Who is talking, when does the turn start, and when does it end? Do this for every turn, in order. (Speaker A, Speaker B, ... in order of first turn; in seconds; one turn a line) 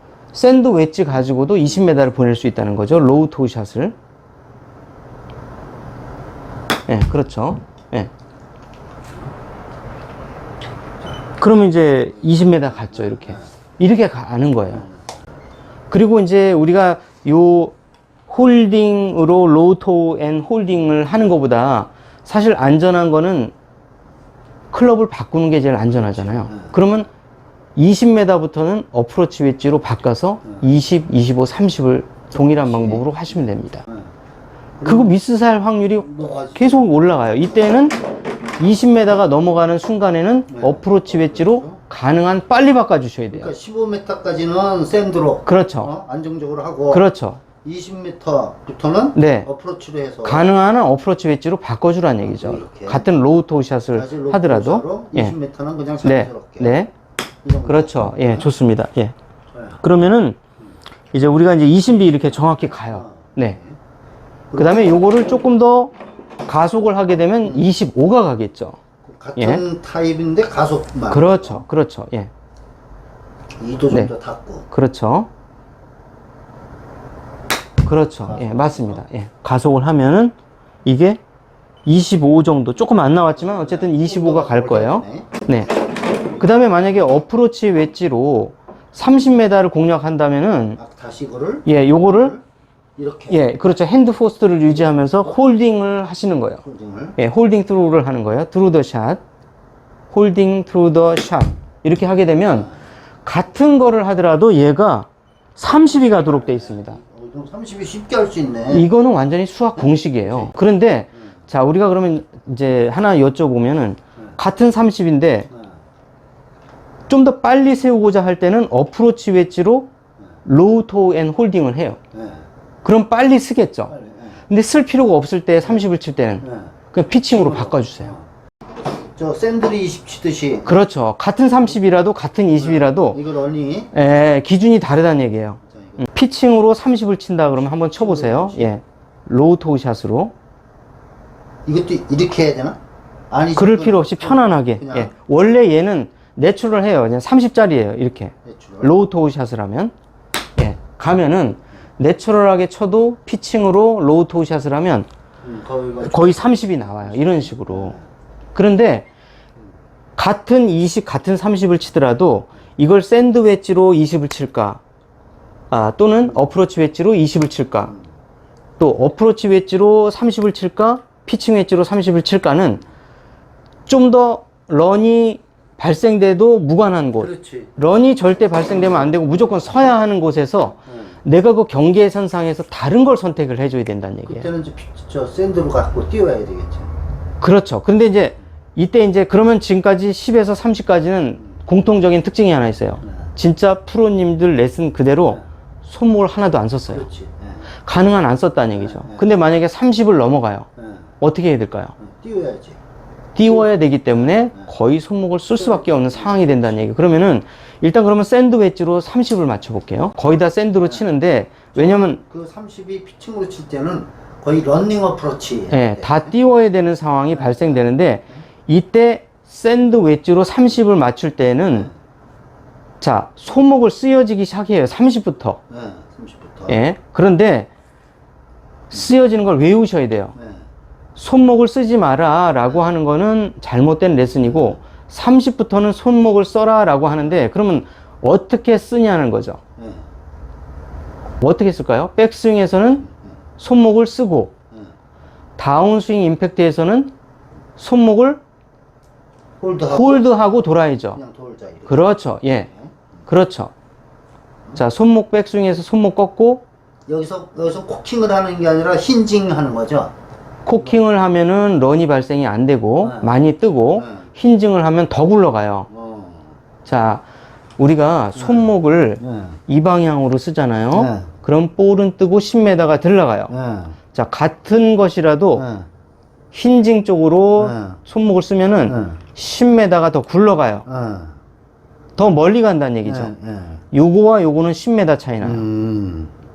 Speaker A: 0.3-4.0
Speaker A: 6.9-8.1
Speaker A: 11.4-14.8
Speaker B: 13.0-13.4
Speaker A: 15.9-17.7
Speaker A: 18.3-23.5
Speaker A: 24.7-27.1
Speaker B: 26.1-26.7
Speaker A: 27.8-33.8
Speaker B: 32.5-33.1
Speaker B: 34.8-35.1
Speaker A: 34.8-38.0
Speaker B: 36.0-36.9
Speaker A: 38.6-43.5
Speaker B: 40.5-41.8
Speaker B: 43.3-47.0
Speaker A: 45.5-45.9
Speaker A: 46.9-47.4
Speaker B: 47.6-50.5
Speaker A: 49.1-49.5
Speaker A: 50.2-55.3
Speaker B: 52.2-53.1
Speaker B: 53.9-56.8
Speaker A: 56.0-56.9
Speaker B: 57.4-58.5
Speaker A: 57.6-59.1
Speaker B: 59.5-59.8
Speaker A: 59.8-60.4
Speaker A: 61.1-63.6
Speaker B: 62.1-63.8
Speaker B: 64.5-65.3
Speaker A: 64.5-68.8
Speaker B: 69.0-71.6
Speaker A: 69.4-69.6
Speaker A: 71.1-72.3
Speaker B: 73.6-74.7
Speaker A: 74.7-75.3
Speaker A: 77.8-81.2
Speaker B: 78.2-79.0
Speaker A: 81.8-85.7
Speaker B: 83.3-86.4
Speaker A: 86.4-90.8
Speaker B: 90.8-92.4
Speaker A: 91.7-92.3
Speaker B: 93.0-93.5
Speaker A: 93.3-96.6
Speaker B: 96.6-97.2
Speaker A: 97.2-99.2
Speaker A: 100.1-102.7
Speaker A: 103.2-107.0
Speaker B: 105.9-108.9
Speaker A: 108.7-115.5
Speaker B: 110.2-110.5
Speaker A: 117.1-119.9
Speaker A: 120.4-122.0
Speaker B: 122.1-122.4
Speaker A: 122.8-123.9
Speaker B: 123.9-124.4
Speaker A: 124.5-128.1
Speaker B: 126.4-126.7
Speaker B: 127.3-128.3
Speaker B: 129.2-130.7
Speaker A: 130.7-133.2
Speaker B: 132.6-133.9
Speaker A: 133.9-140.3
Speaker B: 135.7-136.0
Speaker B: 138.0-138.7
Speaker B: 141.7-142.8
Speaker B: 143.3-145.1
Speaker A: 143.6-149.9
Speaker B: 148.4-148.9
Speaker A: 150.6-155.1
Speaker B: 155.4-158.0
Speaker A: 156.0-157.9
Speaker A: 158.5-159.1
Speaker A: 160.2-164.8
Speaker A: 165.7-167.9
Speaker A: 168.8-172.8
Speaker A: 173.8-184.5
Speaker B: 177.2-177.7
Speaker B: 180.9-181.1
Speaker B: 184.2-186.9
Speaker A: 187.4-197.1
Speaker B: 193.0-193.3
Speaker B: 196.9-197.7
Speaker A: 197.8-200.7
Speaker B: 198.7-199.2
Speaker B: 200.8-201.0
Speaker A: 201.2-201.9
Speaker B: 202.0-202.8
Speaker A: 203.3-212.2
Speaker B: 205.6-206.6
Speaker B: 211.8-216.3
Speaker A: 215.7-221.9
Speaker B: 217.3-217.9
Speaker A: 223.0-225.6
Speaker B: 225.7-226.8
Speaker A: 226.7-227.7
Speaker A: 228.9-230.3
Speaker B: 230.3-230.6
Speaker A: 231.2-239.6
Speaker B: 234.5-234.8
Speaker B: 239.8-240.0
Speaker A: 241.4-243.1
Speaker A: 243.6-244.5
Speaker A: 245.6-247.1
Speaker A: 247.8-248.4
Speaker B: 249.6-250.5
Speaker A: 249.9-251.2
Speaker B: 251.1-252.0
Speaker A: 251.9-252.7
Speaker B: 252.7-253.0
Speaker A: 253.3-253.7
Speaker A: 254.8-256.6
Speaker B: 257.1-260.1
Speaker A: 260.6-265.9
Speaker B: 263.0-263.3
Speaker B: 263.9-264.3
Speaker B: 265.9-266.6
Speaker A: 266.8-267.2
Speaker A: 267.8-273.5
Speaker B: 268.4-268.7
Speaker B: 269.2-269.6
Speaker B: 270.9-271.3
Speaker B: 273.5-274.0
Speaker A: 274.1-275.6
Speaker B: 275.6-275.9
Speaker A: 276.5-280.8
Speaker B: 277.6-278.0
Speaker B: 278.9-279.2
Speaker B: 280.9-281.4
Speaker A: 282.2-283.3
Speaker B: 283.0-283.8
Speaker A: 283.9-285.6
Speaker B: 285.4-286.3